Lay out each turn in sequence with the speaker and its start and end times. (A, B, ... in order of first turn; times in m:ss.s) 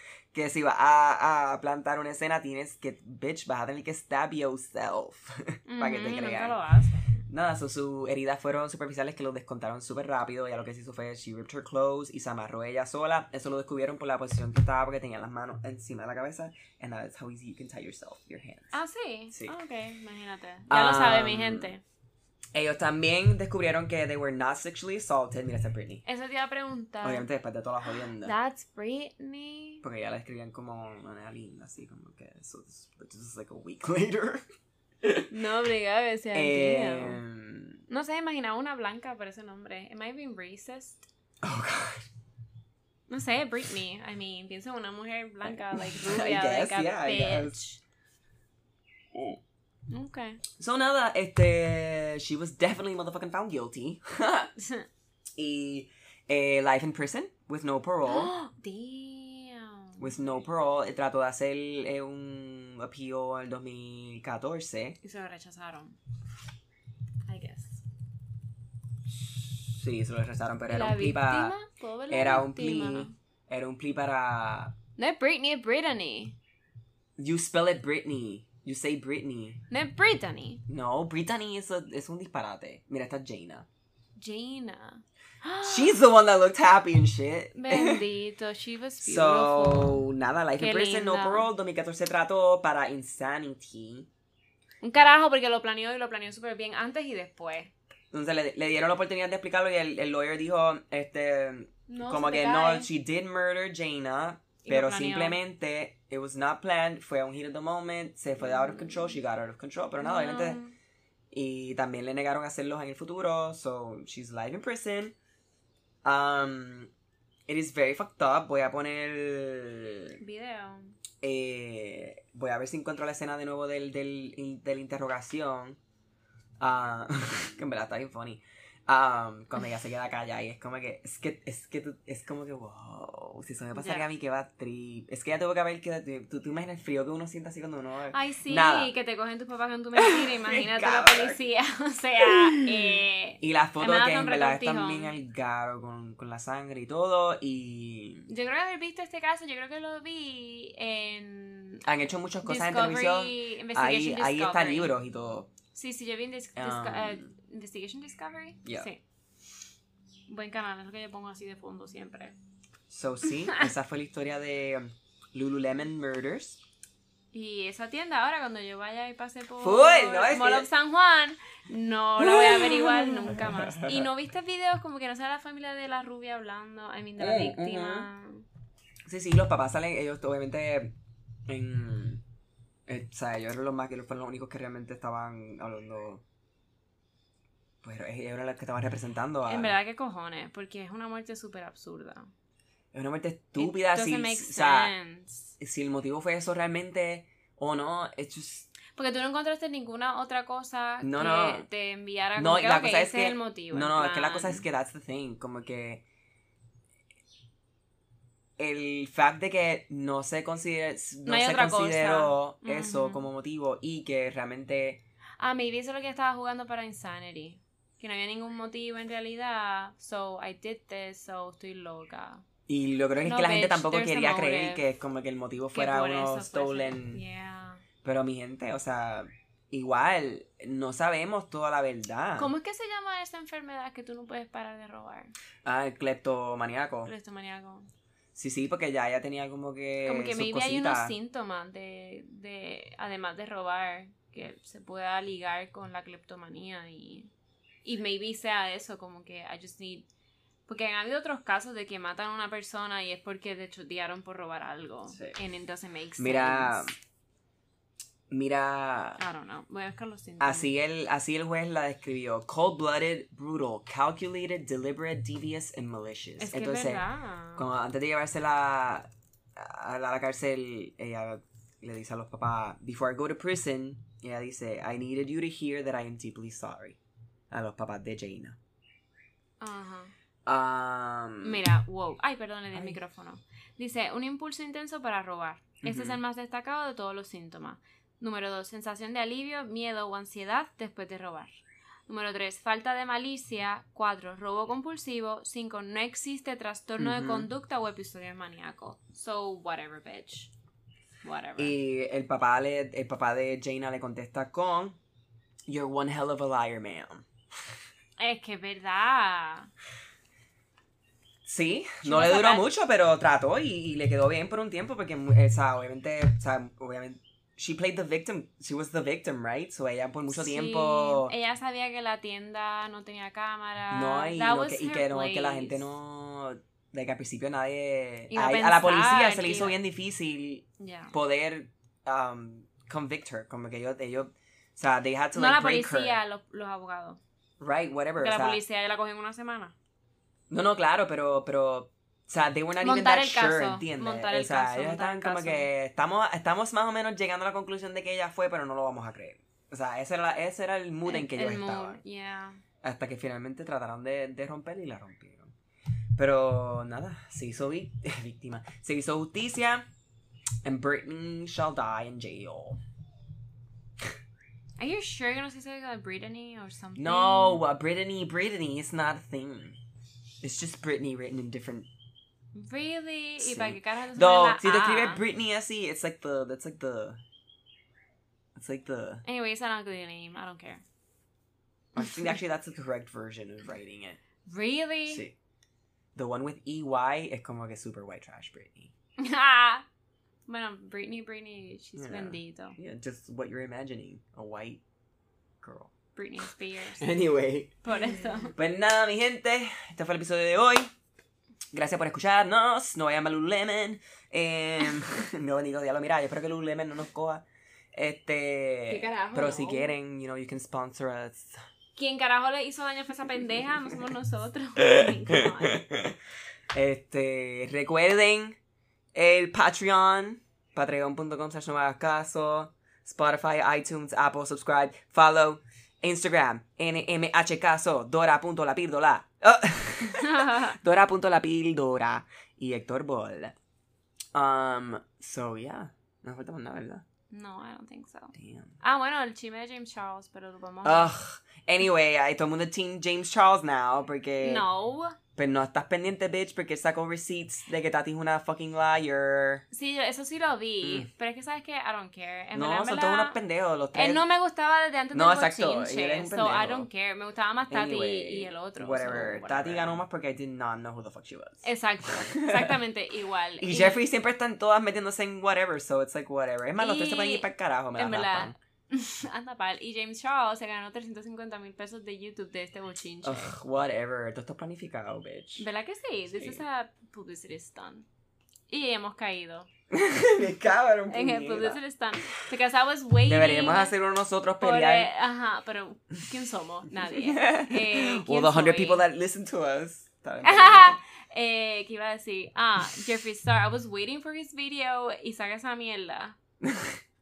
0:00.3-0:06.6 A
0:05.7-0:07.2 B
0:07.3-0:18.8 A
0:18.7-0:21.8 B
0:19.3-0:19.5 A
0:20.7-0:21.7 A
0:22.5-0:26.0 A
0:26.0-0:27.2 B
0:27.0-0:28.3 A
0:27.9-0:29.8 B
0:29.8-0:34.4 A
0:35.0-0:35.3 A
0:35.3-0:37.2 B
0:36.3-0:37.8 A
0:37.9-0:41.1 B
0:41.4-0:42.1 A
0:43.1-0:47.8 B
0:45.5-0:47.6 A
0:49.1-0:49.4 A
0:49.9-0:50.4 B
0:50.6-0:54.5 A
0:54.6-0:54.9 B
0:55.4-0:58.3 A
0:58.0-1:00.1 B
1:00.0-1:05.0 A
1:05.0-1:06.0 B
1:07.2-1:07.8 B
1:09.1-1:11.5 A
1:10.7-1:13.1 B
1:12.1-1:14.7 A
1:15.0-1:16.4 B
1:17.2-1:19.6 A
1:19.7-1:20.6 B
1:20.7-1:23.7 A
1:24.2-1:26.0 B
1:25.6-1:28.0 A
1:27.5-1:30.0 B
1:29.0-1:34.1 A
1:30.6-1:31.5 B
1:34.8-1:37.7 B
1:38.1-1:50.6 A
1:41.9-1:42.9 B
1:44.6-1:45.4 B
1:48.4-1:49.1 B
1:50.0-1:50.7 B
1:51.3-1:55.2 A
1:56.0-1:56.9 A
1:57.5-2:00.2 A
2:00.2-2:01.0 B
2:01.2-2:05.8 A
2:06.6-2:18.9 A
2:13.7-2:14.0 B
2:18.1-2:25.1 B
2:19.9-2:21.4 A
2:22.2-2:22.6 A
2:23.4-2:28.3 A
2:28.3-2:31.8 B
2:31.8-2:35.5 A
2:32.4-2:34.9 B
2:35.7-2:39.0 B
2:36.6-2:37.3 A
2:40.3-2:42.4 B
2:42.9-2:46.6 A
2:47.3-2:58.4 B
2:49.6-2:50.7 A
2:52.2-2:54.1 A
2:57.2-2:58.1 A
2:59.1-3:00.9 A
3:01.5-3:02.2 A
3:02.9-3:06.2 A
3:07.8-3:09.7 A
3:09.4-3:12.3 B
3:12.9-3:14.9 A
3:13.6-3:15.5 B
3:15.6-3:18.7 A
3:18.9-3:24.6 B
3:21.0-3:21.6 A
3:22.4-3:26.0 A
3:28.6-3:35.0 A
3:31.2-3:33.2 B
3:35.4-3:42.4 B
3:42.7-3:47.2 A
3:43.2-3:44.8 B
3:45.7-3:47.8 B
3:48.0-3:52.5 A
3:52.4-3:55.3 B
3:55.6-3:57.1 A
3:57.0-3:57.9 B
3:58.3-4:01.1 A
4:00.0-4:07.3 B
4:07.8-4:10.1 B
4:10.7-4:16.9 B
4:15.1-4:15.4 A
4:16.2-4:16.9 A
4:18.3-4:19.2 A
4:19.2-4:20.7 B
4:20.4-4:27.0 A
4:26.4-4:27.6 B
4:27.6-4:37.0 A
4:37.5-4:38.6 A
4:39.6-4:40.1 B
4:40.4-4:41.6 A
4:41.4-4:51.5 B
4:45.8-4:46.2 A
4:52.1-5:00.5 B
4:57.0-4:57.5 A
5:01.2-5:01.7 B
5:01.6-5:05.0 A
5:05.7-5:07.3 A
5:08.2-5:09.7 B
5:11.4-5:21.3 A
5:12.0-5:12.7 B
5:20.3-5:25.8 B
5:23.9-5:36.2 A
5:28.3-5:29.8 B
5:30.8-5:31.1 B
5:35.3-5:37.2 B
5:37.6-5:38.6 A
5:38.2-5:39.7 B
5:40.5-5:52.0 A
5:42.8-5:45.7 B
5:51.0-5:52.6 B
5:52.8-5:55.5 A
5:56.2-5:59.9 A
6:00.6-6:02.8 A
6:04.8-6:07.6 B
6:07.0-6:09.8 A
6:10.4-6:11.9 A
6:12.5-6:15.2 B
6:13.4-6:17.2 A
6:18.6-6:19.2 A
6:19.2-6:20.8 B
6:21.9-6:24.2 A
6:22.0-6:22.4 B
6:24.4-6:25.2 B
6:25.1-6:25.3 A
6:26.1-6:28.9 A
6:29.2-6:29.8 B
6:30.5-6:32.8 B
6:32.0-6:34.8 A
6:35.6-6:35.9 A
6:36.2-6:37.1 B
6:37.0-6:37.8 A
6:37.8-6:38.5 B
6:38.5-6:40.9 A
6:41.7-6:51.6 A
6:48.9-6:49.9 B
6:52.0-6:55.8 B
6:54.8-6:56.1 A
6:56.7-6:58.6 A
6:59.1-7:13.5 A
7:10.1-7:10.7 B
7:14.3-7:17.0 A
7:17.3-7:21.1 B
7:18.3-7:18.7 A
7:20.8-7:24.6 A
7:24.4-7:25.2 B
7:25.4-7:29.6 A
7:29.7-7:33.4 B
7:30.8-7:31.1 A
7:32.5-7:34.2 A
7:33.9-7:40.0 B
7:35.1-7:36.9 A
7:37.7-7:42.7 A
7:41.6-7:44.0 B
7:43.6-7:48.6 A
7:46.8-7:53.6 B
7:53.2-7:55.6 A
7:55.6-7:58.1 B
7:56.4-7:56.6 A
7:58.7-7:59.7 B
7:59.9-8:01.8 A
8:01.1-8:03.9 B
8:03.3-8:05.1 A
8:04.6-8:09.0 B
8:07.1-8:11.0 A
8:10.4-8:16.4 B
8:16.6-8:17.0 A